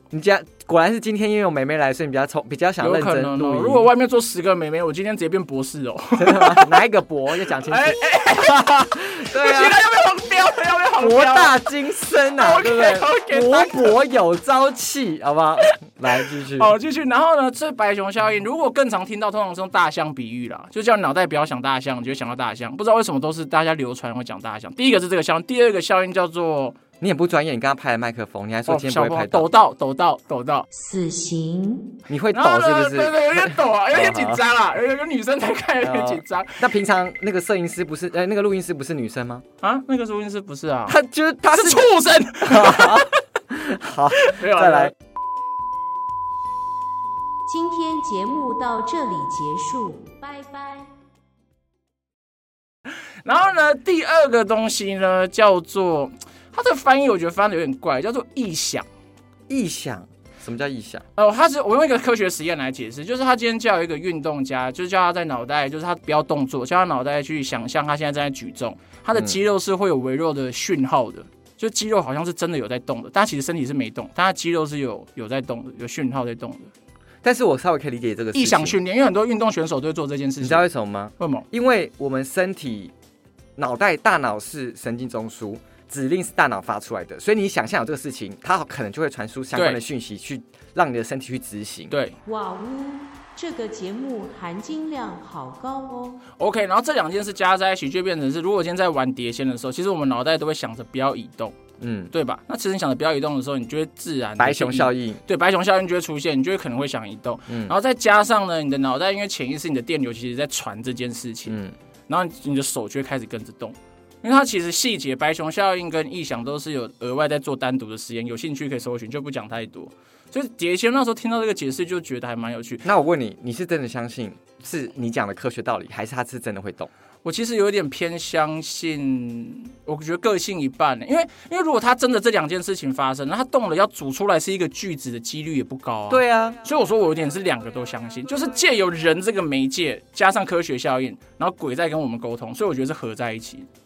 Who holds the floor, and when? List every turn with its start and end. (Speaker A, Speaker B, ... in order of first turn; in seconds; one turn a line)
Speaker A: 0.1-3.9
Speaker B: 2.8-6.8
Speaker A: 6.2-9.8
Speaker B: 7.6-11.6
Speaker A: 11.0-16.7
Speaker B: 12.4-13.9
Speaker B: 16.2-26.8
Speaker A: 27.0-29.5
Speaker B: 28.7-30.7
Speaker C: 30.7-31.9
Speaker A: 32.1-34.4
Speaker B: 32.3-36.6
Speaker A: 35.8-39.5
Speaker B: 39.6-41.0
Speaker A: 40.9-44.9
Speaker B: 41.5-43.1
Speaker B: 44.2-44.9
Speaker C: 47.5-50.9
Speaker B: 53.2-58.9
Speaker A: 59.5-61.1
Speaker B: 61.2-76.7
Speaker A: 77.2-78.8
Speaker B: 78.3-80.7
Speaker A: 80.4-82.9
Speaker B: 81.2-81.5
Speaker A: 83.6-91.9
Speaker B: 89.5-89.8
Speaker B: 91.9-92.2
Speaker C: 92.2-96.2
Speaker B: 96.4-101.6
Speaker A: 101.8-102.1
Speaker B: 102.1-122.9
Speaker A: 104.4-105.2
Speaker A: 107.5-107.7
Speaker A: 111.5-111.8
Speaker A: 122.8-126.9
Speaker B: 127.2-143.7
Speaker A: 136.1-136.6